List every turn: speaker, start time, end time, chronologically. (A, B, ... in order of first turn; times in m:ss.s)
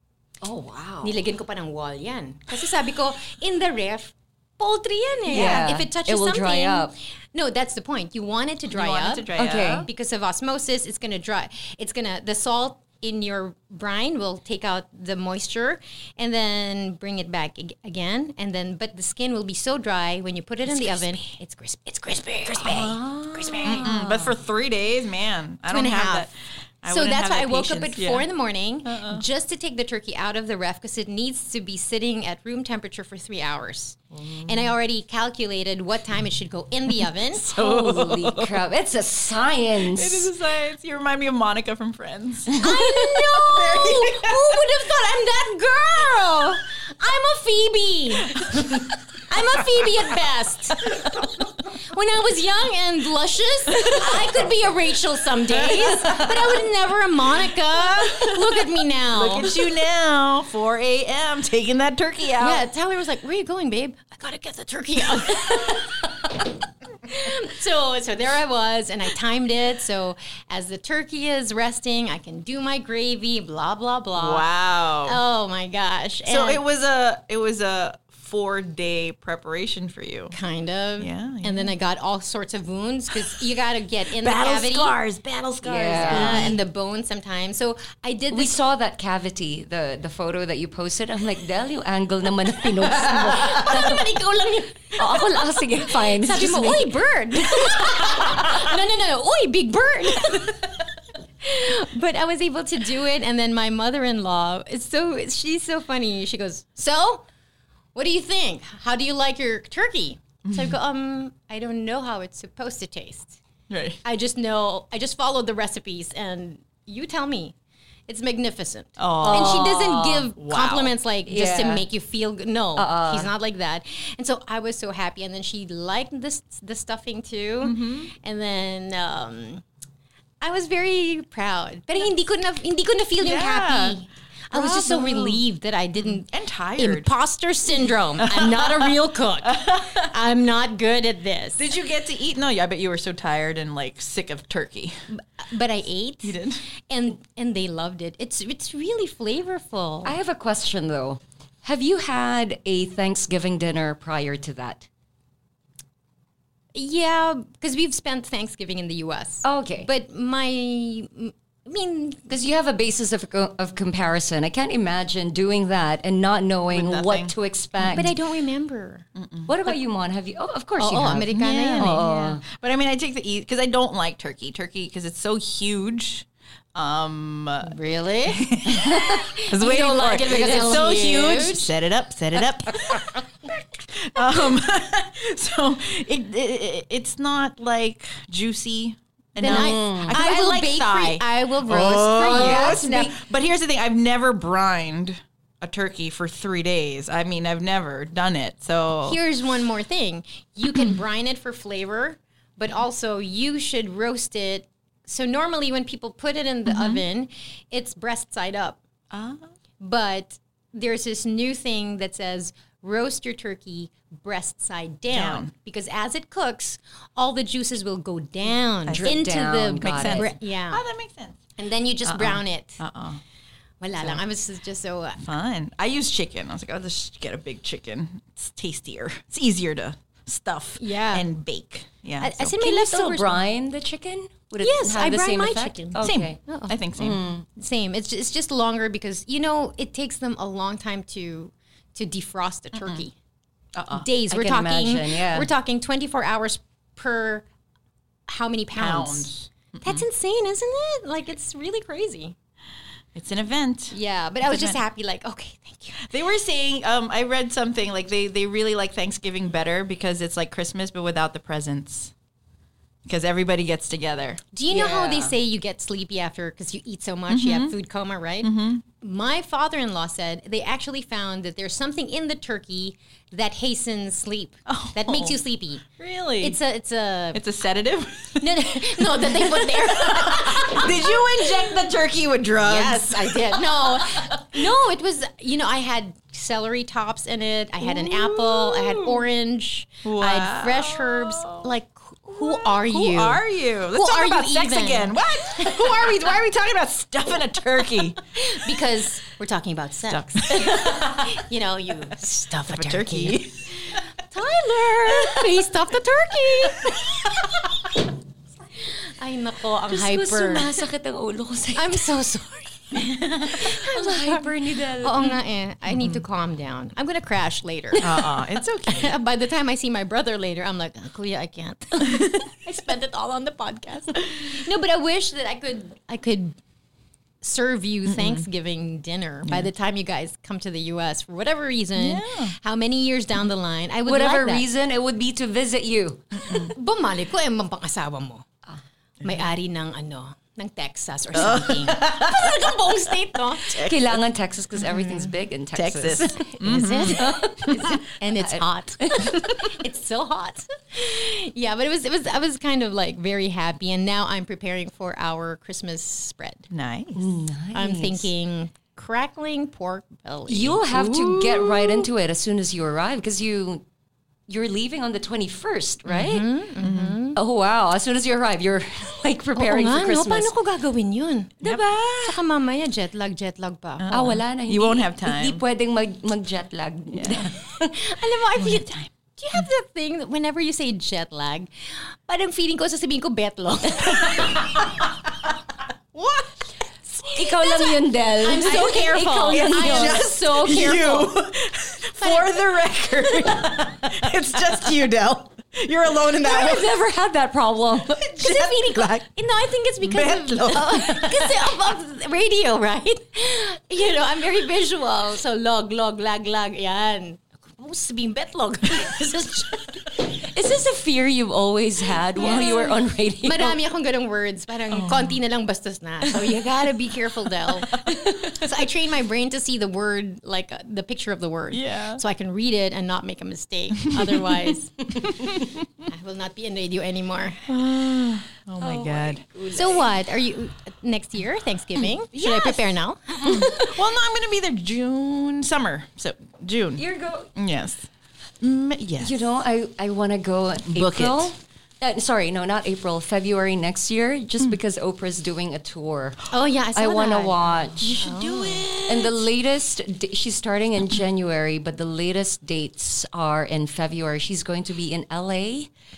0:00.4-0:01.2 A
0:01.0-0:09.3 B
0:05.3-0:06.9 A
0:05.3-0:05.6 C
0:08.7-0:09.9 C
0:09.3-0:09.9 A
0:09.8-0:23.9 B
0:20.7-0:21.3 C
0:22.6-0:23.0 C
0:22.8-0:24.3 A
0:23.6-0:28.3 C
0:25.7-0:26.3 B
0:26.9-0:37.5 B
0:28.9-0:29.2 C
0:34.1-0:34.7 C
0:37.4-0:38.6 C
0:37.5-0:40.3 A
0:39.9-0:42.6 C
0:42.6-0:48.4 B
0:42.7-0:43.0 A
0:43.3-0:44.6 C
0:48.4-0:48.8 C
0:49.3-0:51.1 B
0:51.8-0:59.5 B
0:53.8-0:54.3 C
0:55.7-0:56.3 C
0:57.9-0:58.3 C
0:59.1-1:02.6 C
1:02.4-1:05.8 B
1:07.1-1:14.4 B
1:14.2-1:15.2 C
1:15.1-1:16.6 B
1:16.3-1:20.4 C
1:20.3-1:25.0 B
1:21.0-1:21.7 C
1:24.2-1:26.6 C
1:25.6-1:26.6 A
1:26.0-1:28.6 B
1:28.3-1:34.0 A
1:33.2-1:35.0 B
1:35.0-1:37.0 A
1:36.2-1:40.6 B
1:41.4-1:47.2 B
1:48.0-1:53.4 B
1:50.5-1:50.8 C
1:53.7-1:54.0 C
1:54.0-1:57.5 B
1:58.1-2:09.6 B
1:59.0-2:00.9 C
1:59.2-2:00.3 A
2:01.3-2:01.8 A
2:02.8-2:03.3 A
2:07.6-2:08.1 C
2:10.4-2:21.7 B
2:13.2-2:14.0 C
2:14.5-2:15.4 C
2:16.0-2:17.1 C
2:18.3-2:18.9 C
2:19.4-2:20.1 C
2:21.6-2:25.0 C
2:25.1-2:30.2 B
2:26.2-2:26.6 C
2:30.0-2:34.9 A
2:36.7-2:42.4 B
2:39.4-2:39.9 A
2:42.3-2:48.1 A
2:46.7-2:48.1 C
2:47.9-2:49.0 B
2:49.2-2:49.6 C
2:49.5-2:52.4 A
2:50.8-2:52.0 B
2:51.3-2:57.8 C
2:57.6-2:58.5 B
2:58.3-3:19.2 C
2:58.7-3:00.8 A
2:59.4-3:01.6 B
3:09.4-3:13.1 B
3:09.4-3:10.2 A
3:12.2-3:12.9 A
3:19.0-3:28.8 B
3:26.7-3:27.0 C
3:29.1-3:29.5 C
3:29.8-3:40.8 B
3:35.1-3:35.5 C
3:38.9-3:39.2 C
3:38.9-3:40.3 A
3:39.8-3:41.4 C
3:41.6-3:42.8 B
3:42.0-3:43.2 C
3:43.8-3:45.2 B
3:45.2-3:52.5 C
3:50.8-3:51.3 B
3:52.2-3:53.4 B
3:52.6-3:56.4 A
3:54.6-3:56.8 B
3:56.0-3:57.2 C
3:57.0-3:57.5 A
3:57.6-4:03.2 B
4:02.8-4:03.0 C
4:03.8-4:04.1 C
4:04.0-4:07.5 B
4:04.3-4:05.5 A
4:08.3-4:09.3 B
4:08.8-4:10.1 C
4:09.8-4:12.4 B
4:13.2-4:14.8 C
4:13.9-4:16.1 B
4:16.1-4:22.1 C
4:23.1-4:24.4 C
4:24.5-4:35.8 B
4:24.7-4:25.3 A
4:27.3-4:27.7 C
4:28.4-4:28.8 C
4:34.7-4:35.4 C
4:36.0-4:36.6 C
4:36.4-4:37.4 B
4:37.3-4:44.4 C
4:38.4-4:41.5 B
4:42.6-4:53.4 B
4:47.8-4:49.2 C
4:50.0-4:51.6 C
4:52.4-4:58.7 C
4:53.9-4:56.0 B
4:58.4-5:03.4 B
5:00.1-5:01.2 C
5:02.7-5:04.0 C
5:04.3-5:07.1 B
5:08.8-5:10.8 B
5:09.9-5:12.1 A
5:11.7-5:26.6 B
5:13.5-5:15.4 A
5:15.9-5:16.2 C
5:18.0-5:19.1 C
5:27.4-5:34.7 B
5:28.1-5:28.5 C
5:32.0-5:32.6 C
5:34.0-5:36.6 A
5:36.6-5:38.4 B
5:39.2-5:43.8 B
5:41.3-5:42.7 C
5:43.6-5:44.1 C
5:43.8-5:46.5 A
5:44.9-5:45.3 B
5:45.7-5:47.4 C
5:46.6-5:56.7 B
5:47.1-5:49.3 A
5:56.7-5:57.2 C
5:57.2-5:58.3 A
5:57.7-6:01.7 B
6:00.5-6:03.8 A
6:04.5-6:06.5 A
6:06.2-6:07.4 B
6:06.8-6:07.2 C
6:07.4-6:10.5 A
6:09.6-6:14.1 B
6:11.6-6:12.3 C
6:14.0-6:15.6 C
6:14.1-6:17.9 A
6:17.2-6:17.5 C
6:17.9-6:24.7 B
6:18.6-6:19.7 C
6:24.4-6:24.8 C
6:26.1-6:26.7 C
6:27.2-6:31.3 B
6:27.4-6:30.2 A
6:29.5-6:36.9 C
6:32.2-6:32.6 B
6:36.4-6:38.3 A
6:38.2-6:39.3 C
6:38.4-6:50.0 B
6:40.0-6:41.5 C
6:50.4-6:53.8 A
6:52.4-6:58.0 B
6:54.9-6:55.4 C
6:58.1-6:58.4 A
6:58.5-7:05.4 B
7:01.7-7:02.2 C
7:04.2-7:04.4 C
7:06.1-7:07.6 B
7:07.7-7:09.4 C
7:08.8-7:10.1 A
7:09.7-7:13.9 B
7:12.4-7:12.8 C
7:13.5-7:13.8 A
7:13.8-7:17.0 C
7:17.0-7:17.5 A
7:17.6-7:18.1 C
7:18.6-7:19.5 C
7:19.2-7:26.4 A
7:20.9-7:21.5 C
7:26.5-7:27.7 B
7:26.9-7:28.3 A
7:28.0-7:29.3 C
7:28.2-7:29.0 B
7:29.1-7:35.9 A